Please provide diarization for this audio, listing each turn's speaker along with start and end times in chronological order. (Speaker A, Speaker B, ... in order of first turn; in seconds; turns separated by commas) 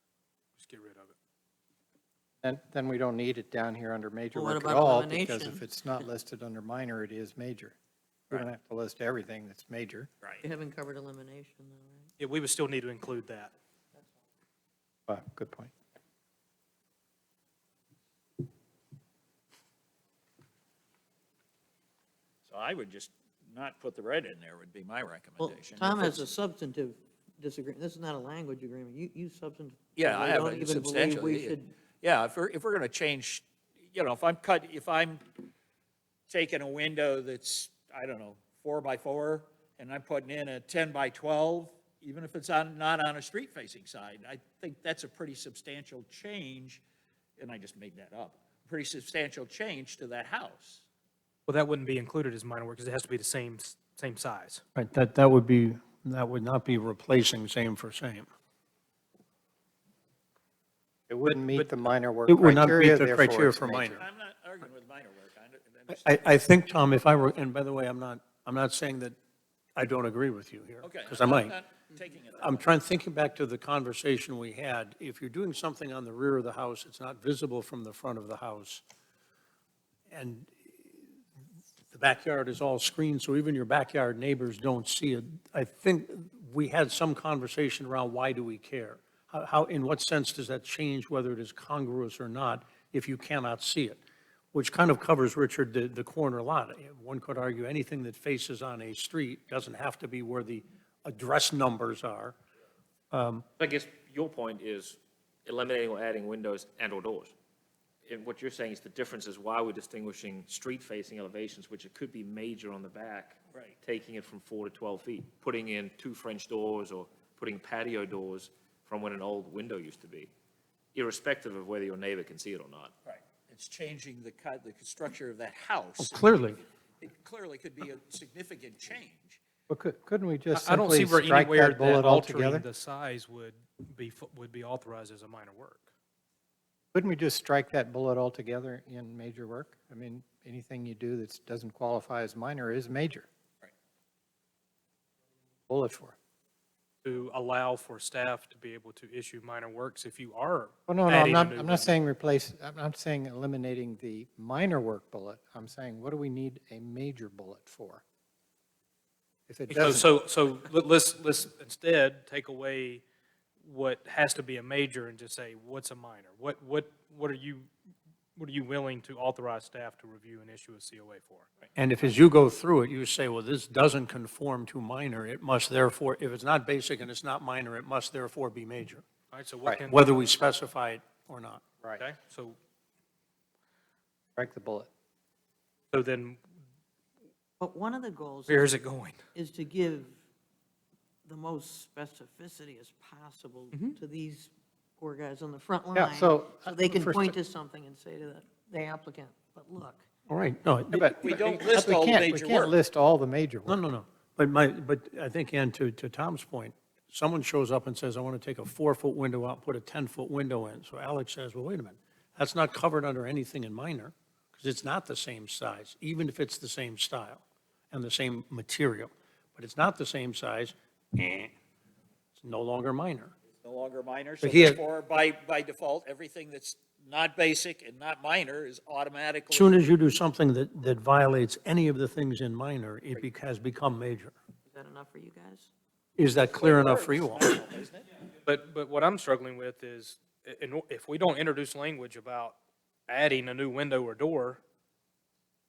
Speaker A: 0.6-1.1, Speaker B: 2.4-7.8, Speaker C: 4.3-5.6, Speaker B: 8.3-10.1, Speaker D: 10.2-10.5, Speaker C: 10.4-12.1, Speaker A: 12.2-13.5, Speaker B: 15.1-15.7, Speaker D: 22.4-26.3, Speaker C: 25.4-31.7, Speaker D: 29.9-35.3, Speaker D: 36.3-46.8, Speaker D: 47.4-50.9, Speaker A: 51.5-54.6, Speaker E: 54.7-58.3, Speaker B: 61.1-63.9, Speaker A: 61.3-61.7, Speaker E: 62.3-64.0, Speaker D: 63.7-66.1, Speaker E: 66.0-69.2, Speaker E: 69.8-71.5, Speaker D: 70.8-72.7, Speaker E: 72.3-78.8, Speaker E: 80.1-81.1, Speaker E: 81.9-94.0, Speaker E: 94.5-102.4, Speaker E: 103.1-103.5, Speaker F: 103.6-107.3, Speaker F: 108.0-120.3, Speaker D: 113.5-113.8, Speaker F: 120.9-122.9, Speaker D: 123.0-129.4, Speaker E: 126.1-126.6, Speaker B: 129.7-132.7, Speaker A: 130.5-135.9, Speaker B: 136.9-143.3, Speaker B: 145.7-146.2, Speaker A: 147.0-152.0, Speaker B: 150.9-158.0, Speaker B: 159.5-160.1, Speaker A: 159.7-163.0, Speaker A: 163.6-167.7, Speaker A: 168.3-171.5, Speaker E: 171.7-179.0, Speaker A: 179.3-180.1, Speaker E: 179.9-181.6, Speaker A: 181.9-182.6, Speaker B: 184.3-184.9, Speaker A: 185.9-186.4, Speaker C: 187.6-188.7, Speaker A: 188.5-189.2, Speaker C: 189.3-190.2, Speaker C: 191.2-200.0, Speaker A: 193.7-194.0, Speaker B: 195.9-197.3, Speaker E: 200.3-201.1, Speaker B: 200.9-203.8, Speaker D: 201.1-202.8, Speaker E: 203.7-221.5, Speaker E: 222.4-223.3, Speaker D: 223.6-229.8, Speaker E: 224.4-224.8, Speaker E: 229.5-234.3, Speaker C: 234.7-235.7, Speaker E: 236.2-237.5, Speaker D: 236.4-238.2, Speaker A: 238.4-242.6, Speaker A: 243.1-244.6